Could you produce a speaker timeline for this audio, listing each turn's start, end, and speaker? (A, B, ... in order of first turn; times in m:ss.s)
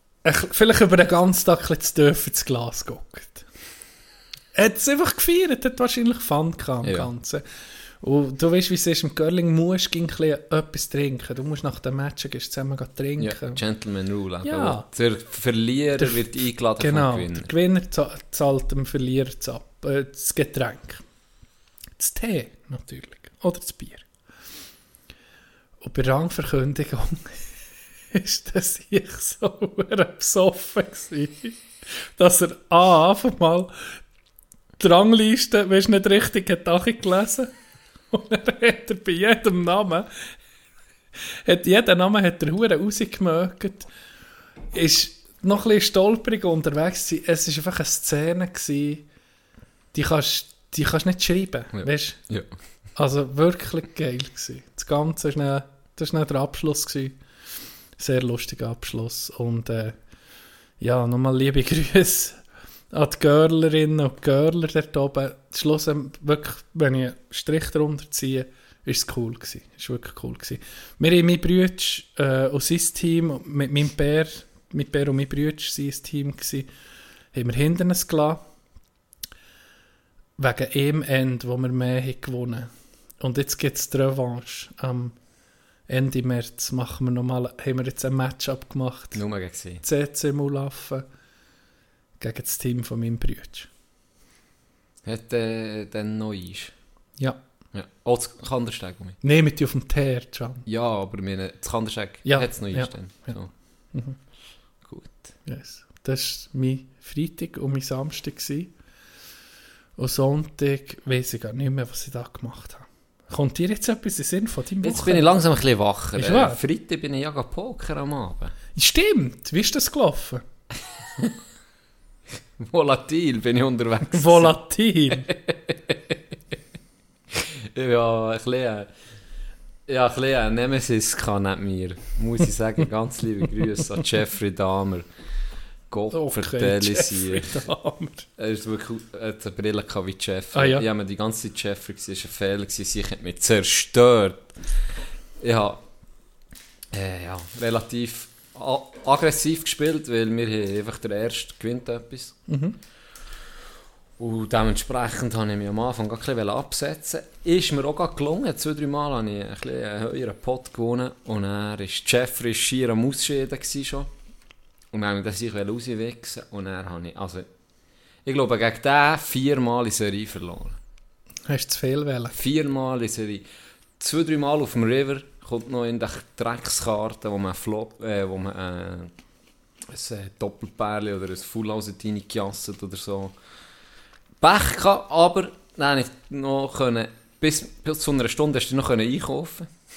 0:00.2-0:03.4 A
0:04.6-0:07.4 A
0:06.8-0:07.1 B
0:08.0-0:13.6 A
0:13.2-0:17.5 B
0:14.4-0:14.9 A
0:16.0-0:16.3 A
0:16.8-0:21.0 A
0:22.0-0:24.1 A
0:25.8-0:27.4 A
0:28.1-0:31.6 A
0:32.2-0:33.7 A
0:34.8-0:37.5 A
0:38.1-0:40.1 A
0:41.4-0:43.9 A
0:44.7-0:49.1 A
0:49.9-0:52.2 A
0:51.7-0:52.5 B
0:53.0-0:57.2 A
0:58.0-1:00.0 A
1:00.8-1:02.4 A
1:02.9-1:16.7 A
1:17.3-1:18.4 A
1:20.4-1:25.2 A
1:25.9-1:29.2 A
1:29.1-1:29.8 B
1:29.8-1:31.0 A
1:32.2-1:33.7 A
1:35.0-1:36.7 B
1:37.7-1:39.2 B
1:39.2-1:40.6 A
1:40.7-1:43.5 B
1:42.2-1:43.4 A
1:44.8-1:45.2 B
1:45.5-1:48.7 A
1:50.0-1:55.3 A
1:54.8-1:58.5 B
1:56.2-1:56.6 A
1:58.8-2:00.4 A
2:02.6-2:04.5 B
2:04.1-2:05.3 A
2:05.1-2:06.1 B
2:07.4-2:08.9 B
2:09.9-2:15.1 B
2:15.9-2:17.6 B
2:16.1-2:18.3 A
2:18.4-2:24.5 B
2:20.5-2:20.8 A
2:25.4-2:25.8 B
2:26.9-2:32.4 B
2:32.5-2:32.8 A
2:34.2-2:44.1 B
2:44.9-2:47.5 B
2:48.2-2:50.8 B
2:51.5-2:52.4 A
2:52.3-2:53.4 B
2:54.0-2:59.1 B
2:59.9-3:03.4 B
3:04.4-3:09.7 B